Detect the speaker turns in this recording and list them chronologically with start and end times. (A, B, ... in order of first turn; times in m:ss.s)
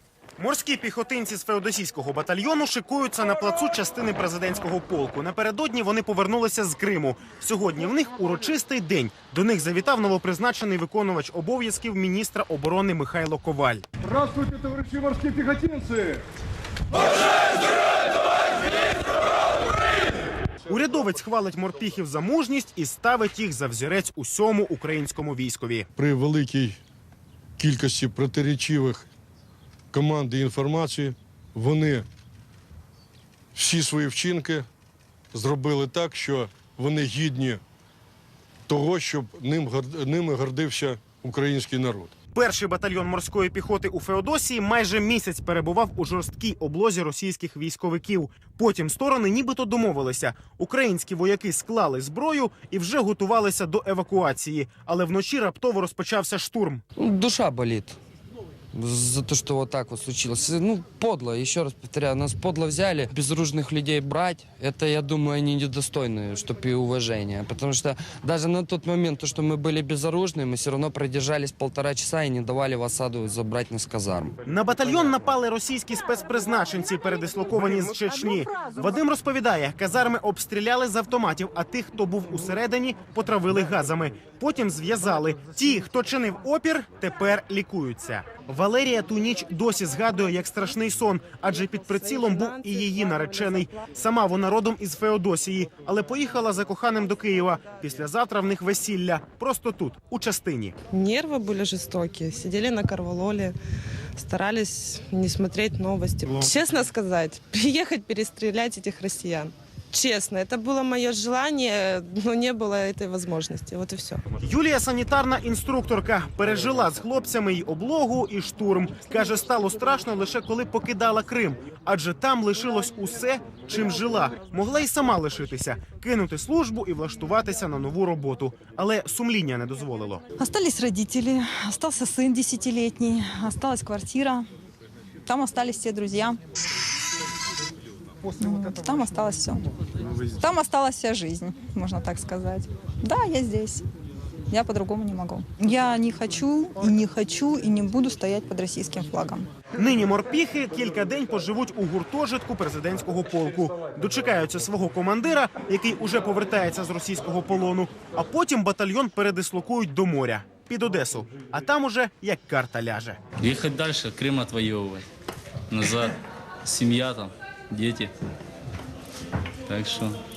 0:00.4-0:13.8 A
0:14.0-0:16.2 B
0:20.7-0:25.9 A
0:26.0-0:26.8 B
0:27.6-0:29.1 B
0:29.9-0:32.1 B
0:33.6-0:34.7 B
0:35.3-0:37.6 B
0:38.7-0:42.1 B
0:42.3-0:56.8 A
0:57.0-0:58.0 C
0:58.7-1:14.3 C
1:14.4-1:40.8 A
1:32.0-1:33.8 D
1:40.9-1:43.6 D
1:44.2-1:54.2 D
1:46.3-1:46.5 A
1:54.4-2:10.2 A
2:10.4-2:14.5 E
2:15.3-2:16.4 E
2:18.4-2:19.6 E
2:20.3-2:23.8 E
2:24.5-2:29.5 E
2:29.8-2:43.2 A
2:43.4-2:45.0 F
2:45.7-2:48.1 F
2:49.7-2:50.2 F